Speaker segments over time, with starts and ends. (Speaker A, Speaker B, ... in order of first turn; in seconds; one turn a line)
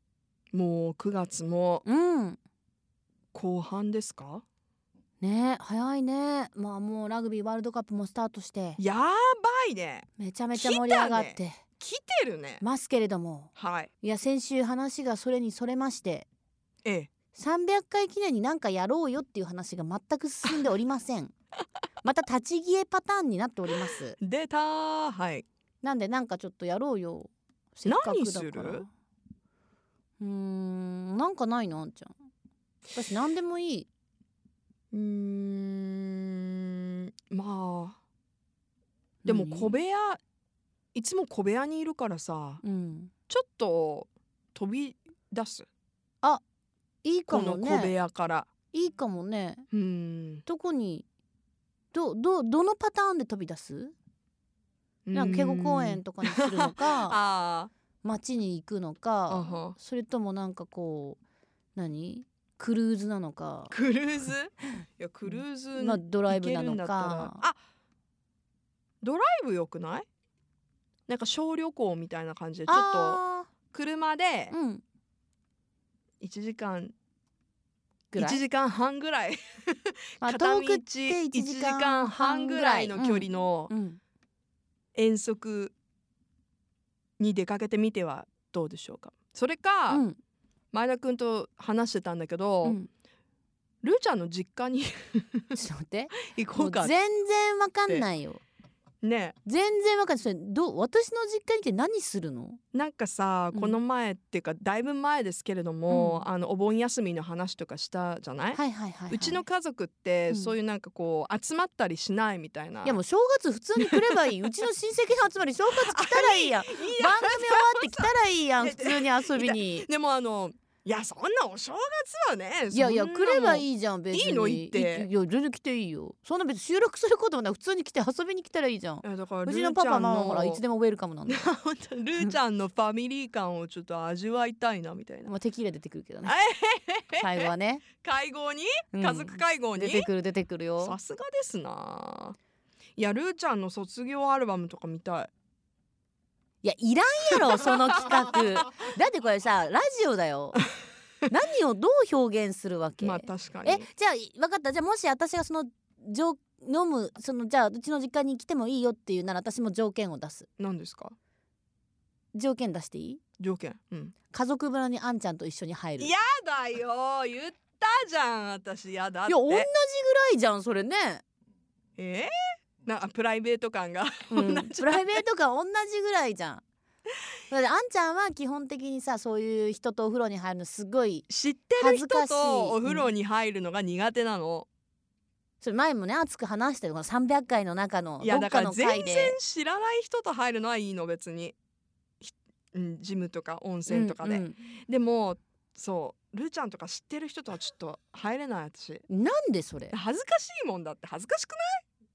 Speaker A: 0.5-1.9
Speaker B: 1.9-2.4
Speaker A: 3.3-4.5
Speaker B: 5.2-8.8
Speaker A: 8.8-12.6
Speaker B: 10.2-11.6
Speaker B: 12.6-16.3
Speaker A: 13.6-13.9
Speaker A: 16.9-17.1
Speaker B: 17.4-21.3
Speaker B: 22.0-24.2
Speaker A: 24.2-25.5
Speaker B: 25.8-28.9
Speaker A: 27.9-28.8
Speaker B: 30.2-32.2
Speaker B: 32.9-33.9
Speaker A: 34.9-38.0
Speaker B: 39.2-39.8
Speaker A: 39.3-40.2
Speaker A: 40.9-42.6
Speaker B: 42.6-43.1
Speaker A: 43.3-45.7
Speaker B: 47.0-47.9
Speaker A: 47.3-48.5
Speaker B: 48.7-49.7
Speaker A: 49.7-50.4
Speaker B: 50.5-51.1
Speaker B: 51.9-54.0
Speaker A: 55.1-57.7
Speaker B: 55.1-57.2
Speaker B: 58.0-61.2
Speaker A: 59.3-59.8
Speaker B: 61.8-63.7
Speaker A: 63.7-67.6
Speaker B: 65.3-67.4
Speaker A: 69.0-70.1
Speaker A: 71.1-74.5
Speaker B: 72.7-73.5
Speaker B: 74.5-74.8
Speaker A: 76.2-76.9
Speaker B: 78.1-78.4
Speaker A: 78.2-83.7
Speaker B: 80.2-84.0
Speaker A: 85.0-85.7
Speaker A: 87.2-90.0
Speaker B: 89.9-90.2
Speaker A: 90.7-92.8
Speaker B: 92.6-92.9
Speaker A: 93.8-95.6
Speaker B: 95.6-98.4
Speaker A: 96.3-96.9
Speaker A: 99.0-99.4
Speaker B: 99.5-102.6
Speaker A: 102.7-113.0
Speaker B: 103.5-103.8
Speaker B: 105.9-106.3
Speaker B: 108.5-109.4
Speaker B: 112.8-119.9
Speaker A: 113.8-114.3
Speaker A: 115.8-125.1
Speaker B: 122.7-131.5
Speaker A: 129.0-130.6
Speaker A: 131.3-135.3
Speaker B: 135.3-136.3
Speaker A: 136.2-137.5
Speaker B: 137.2-137.9
Speaker A: 138.0-140.1
Speaker B: 138.9-141.0
Speaker A: 140.8-142.4
Speaker A: 143.0-145.3
Speaker B: 146.6-150.6
Speaker A: 147.5-148.1
Speaker B: 151.3-160.5
Speaker A: 153.0-153.9
Speaker A: 160.6-161.2
Speaker B: 162.3-163.2
Speaker A: 163.4-164.1
Speaker B: 164.3-166.1
Speaker A: 166.0-169.7
Speaker B: 169.3-171.2
Speaker A: 172.0-172.3
Speaker A: 172.8-175.2
Speaker B: 174.3-176.6
Speaker B: 177.5-183.1
Speaker A: 181.3-184.7
Speaker B: 185.6-189.4
Speaker A: 188.2-191.6
Speaker A: 192.2-199.1
Speaker B: 193.9-194.6
Speaker B: 199.1-199.9
Speaker A: 199.9-201.8